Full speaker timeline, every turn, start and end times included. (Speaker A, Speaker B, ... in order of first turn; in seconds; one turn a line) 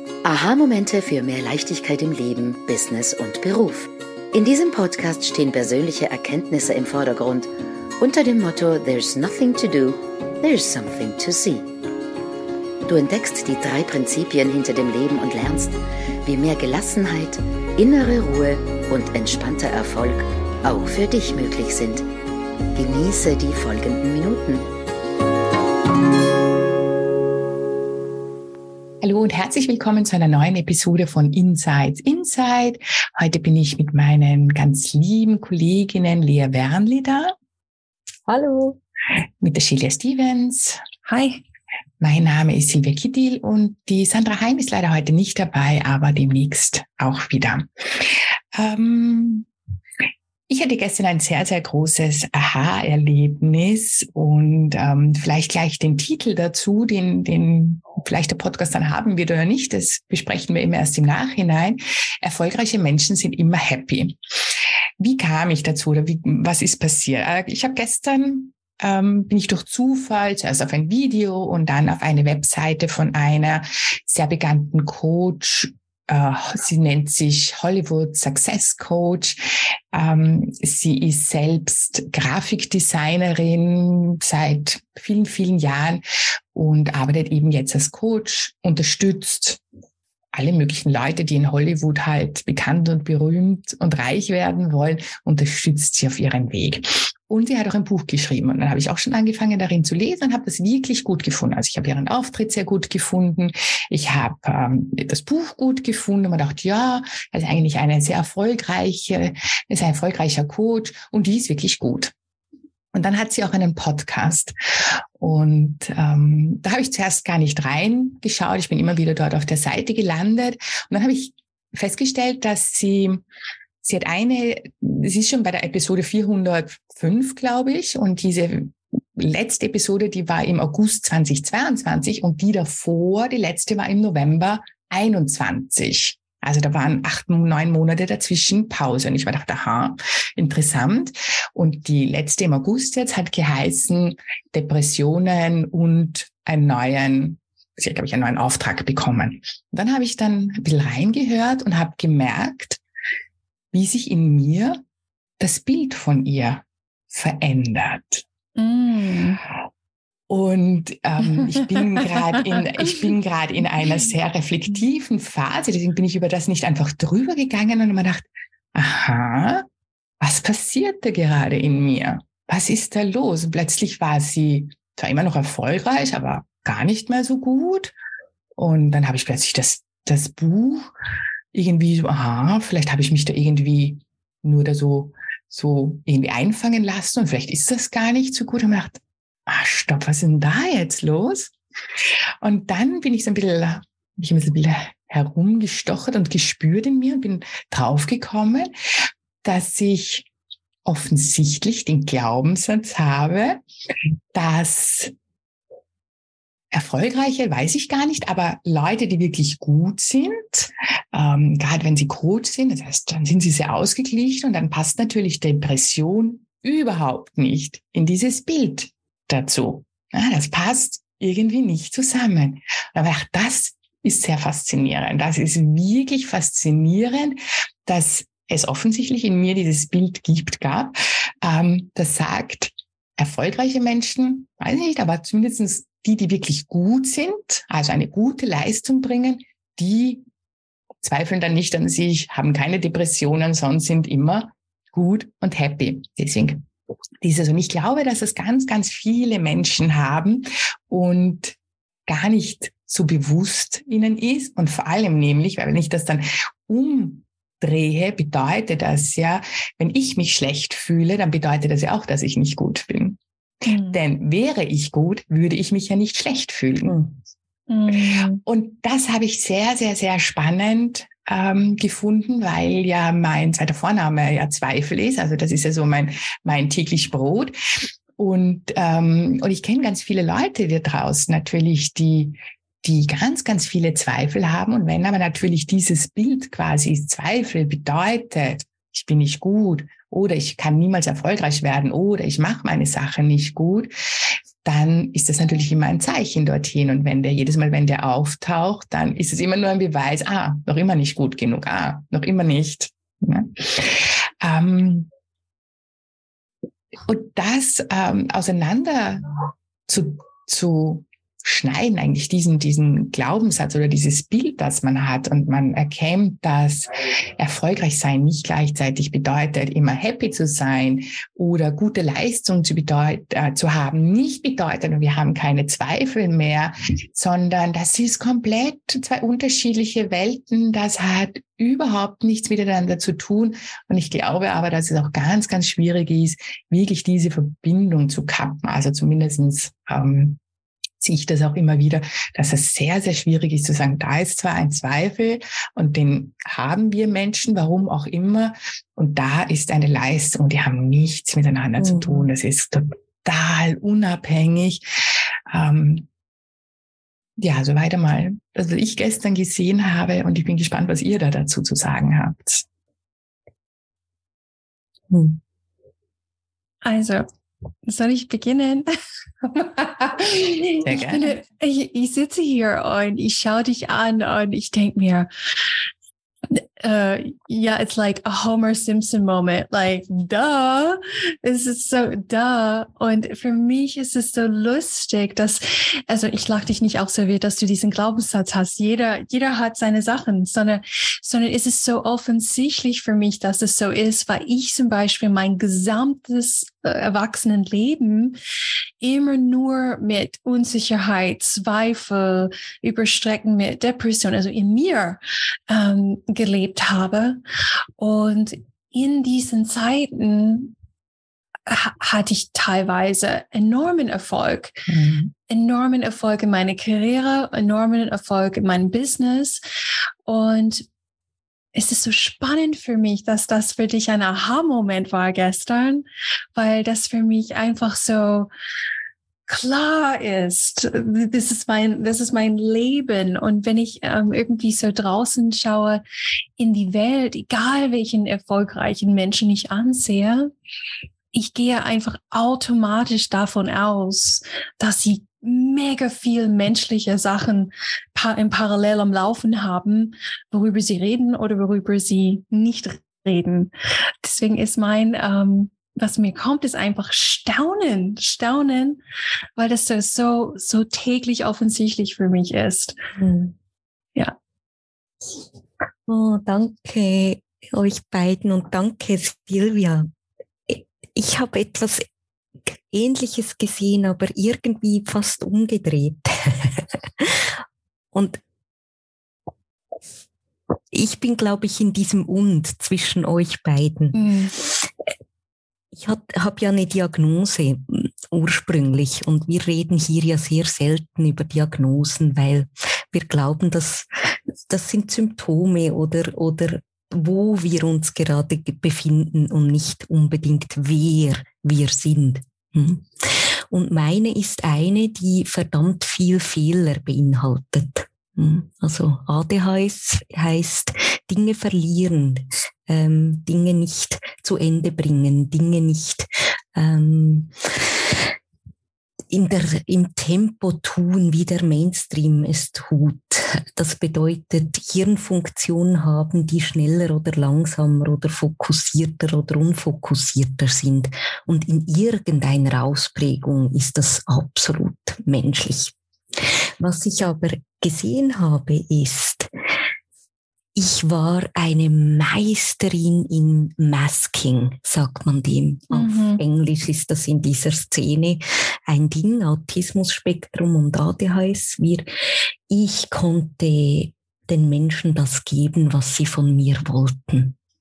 Speaker A: 0.2-11.7
Speaker A: 12.9-22.1
Speaker A: 22.8-24.7
Speaker B: 29.0-37.3
Speaker C: 38.3-38.8
Speaker B: 39.4-40.8
Speaker D: 41.1-41.4
Speaker B: 42.0-49.5
Speaker B: 50.5-64.2
Speaker B: 65.0-79.4
Speaker B: 79.9-89.6
Speaker B: 90.3-112.1
Speaker B: 112.9-114.5
Speaker B: 115.2-123.2
Speaker B: 123.8-152.8
Speaker B: 153.7-154.8
Speaker B: 155.4-158.2
Speaker D: 158.6-159.4
Speaker B: 160.3-169.7
Speaker D: 161.5-162.7
Speaker B: 170.2-177.9
Speaker B: 178.6-180.9
Speaker B: 181.5-191.5
Speaker B: 192.4-198.7
Speaker B: 199.4-200.3
Speaker B: 200.8-203.6
Speaker B: 204.3-205.1
Speaker B: 206.7-240.2
Speaker B: 241.0-246.7
Speaker B: 247.2-263.2
Speaker D: 263.7-264.0
Speaker B: 263.9-267.0
Speaker C: 266.9-267.1
Speaker D: 267.7-268.4
Speaker B: 268.4-293.9
Speaker B: 294.6-305.1
Speaker B: 307.1-309.3
Speaker B: 309.9-340.4
Speaker B: 341.0-354.9
Speaker C: 351.8-352.3
Speaker B: 355.5-356.1
Speaker B: 357.4-362.6
Speaker C: 365.1-365.4
Speaker D: 366.8-367.3
Speaker D: 367.9-368.9
Speaker D: 369.4-375.3
Speaker B: 370.8-371.3
Speaker D: 376.5-398.4
Speaker D: 399.0-407.4
Speaker D: 408.0-410.8
Speaker D: 411.7-414.9
Speaker D: 415.5-419.6
Speaker D: 420.2-420.9
Speaker D: 421.8-428.5
Speaker D: 429.5-436.0
Speaker D: 436.6-440.5
Speaker D: 441.3-453.7
Speaker D: 454.2-459.0
Speaker D: 459.6-463.0
Speaker C: 463.2-463.5
Speaker C: 466.1-470.1
Speaker C: 470.7-472.1
Speaker C: 472.9-477.6
Speaker C: 478.1-478.4
Speaker C: 480.9-484.2
Speaker D: 484.1-484.5
Speaker C: 485.9-517.9
Speaker C: 519.3-535.9
Speaker C: 536.8-539.5
Speaker C: 540.8-552.1
Speaker D: 545.9-546.4
Speaker C: 552.7-557.6